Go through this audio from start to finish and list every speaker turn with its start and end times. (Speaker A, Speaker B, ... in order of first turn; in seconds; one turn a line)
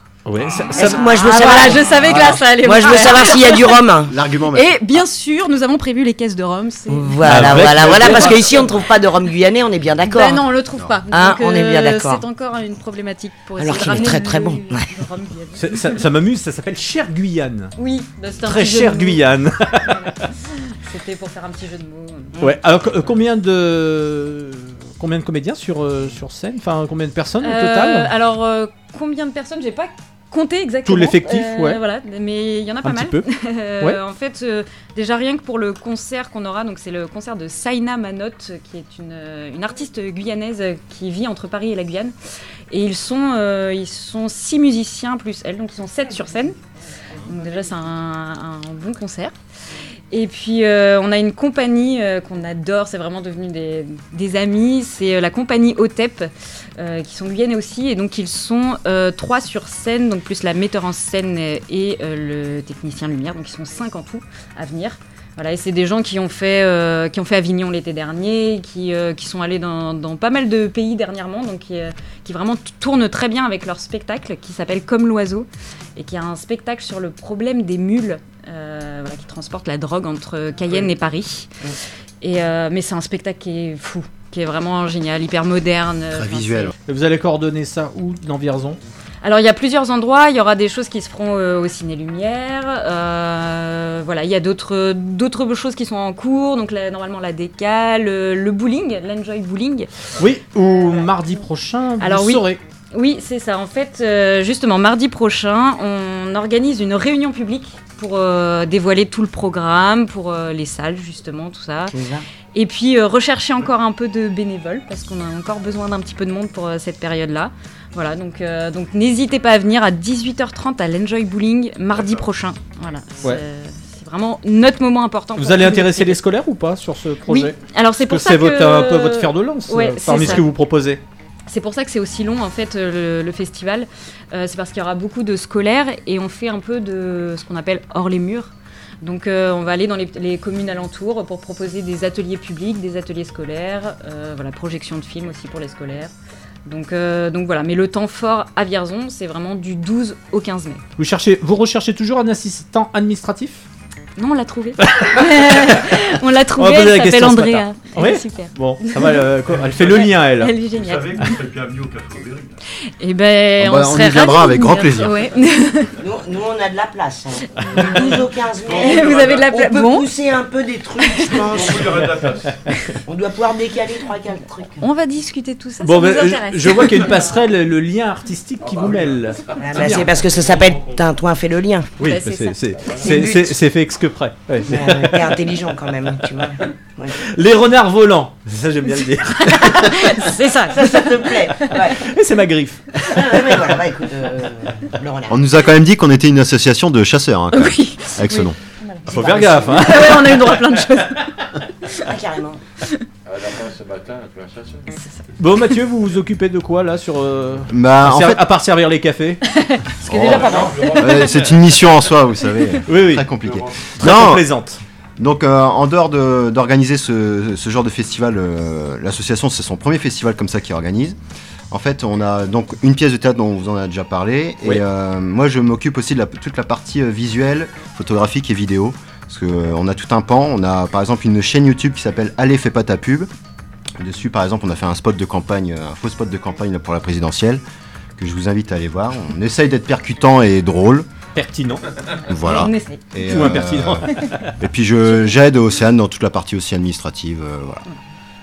Speaker A: 0.3-1.8
Speaker B: 0.7-3.8
Speaker C: 0.8-1.9
Speaker D: 2.0-2.4
Speaker C: 2.5-4.2
Speaker D: 4.1-4.8
Speaker B: 4.5-8.5
Speaker C: 6.9-10.4
Speaker A: 7.2-8.6
Speaker B: 10.1-16.1
Speaker C: 11.1-12.2
Speaker C: 13.6-15.0
Speaker A: 15.6-17.7
Speaker B: 17.8-19.2
Speaker A: 18.4-20.1
Speaker B: 19.9-22.4
Speaker A: 22.4-28.1
Speaker B: 27.4-42.1
Speaker A: 30.9-31.8
Speaker A: 32.8-33.2
Speaker B: 42.7-46.6
Speaker B: 47.2-49.3
Speaker B: 50.1-81.5
Speaker B: 82.2-86.7
Speaker D: 86.1-86.7
Speaker A: 86.9-88.8
Speaker B: 89.2-99.9
Speaker A: 100.2-102.6
Speaker B: 102.0-112.0
Speaker C: 111.9-112.2
Speaker B: 112.5-126.2
Speaker E: 121.9-122.3
Speaker A: 125.4-131.0
Speaker B: 127.3-130.4
Speaker B: 131.5-146.1
Speaker B: 146.7-150.8
Speaker A: 151.0-153.7
Speaker B: 154.2-159.3
Speaker A: 154.8-156.0
Speaker A: 156.6-160.6
Speaker E: 159.5-160.1
Speaker B: 159.8-161.4
Speaker E: 160.7-162.6
Speaker B: 163.0-165.9
Speaker D: 163.6-165.2
Speaker C: 166.0-172.2
Speaker B: 167.6-168.2
Speaker E: 168.7-169.5
Speaker B: 168.7-170.1
Speaker E: 171.4-172.6
Speaker C: 173.0-174.8
Speaker B: 174.8-177.3
Speaker A: 175.8-180.1
Speaker E: 178.7-179.2
Speaker C: 179.6-181.9
Speaker E: 180.5-180.9
Speaker A: 182.0-185.3
Speaker B: 182.0-182.6
Speaker C: 183.0-183.5
Speaker C: 184.6-187.2
Speaker A: 187.4-190.2
Speaker B: 189.4-191.9
Speaker C: 190.7-192.0
Speaker A: 191.9-193.6
Speaker C: 193.1-195.5
Speaker D: 195.3-198.6
Speaker B: 197.5-201.3
Speaker A: 199.1-200.6
Speaker C: 202.0-202.6
Speaker E: 203.3-204.9
Speaker B: 205.0-205.3
Speaker A: 205.4-209.4
Speaker D: 207.7-208.4
Speaker B: 209.5-211.4
Speaker D: 210.1-214.4
Speaker E: 210.3-211.5
Speaker A: 212.8-214.8
Speaker E: 213.4-214.0
Speaker D: 215.2-221.2
Speaker D: 221.7-233.3
Speaker D: 234.0-237.6
Speaker D: 238.2-241.1
Speaker A: 241.3-241.8
Speaker D: 242.3-244.1
Speaker B: 242.3-244.3
Speaker A: 243.2-244.5
Speaker D: 244.6-247.8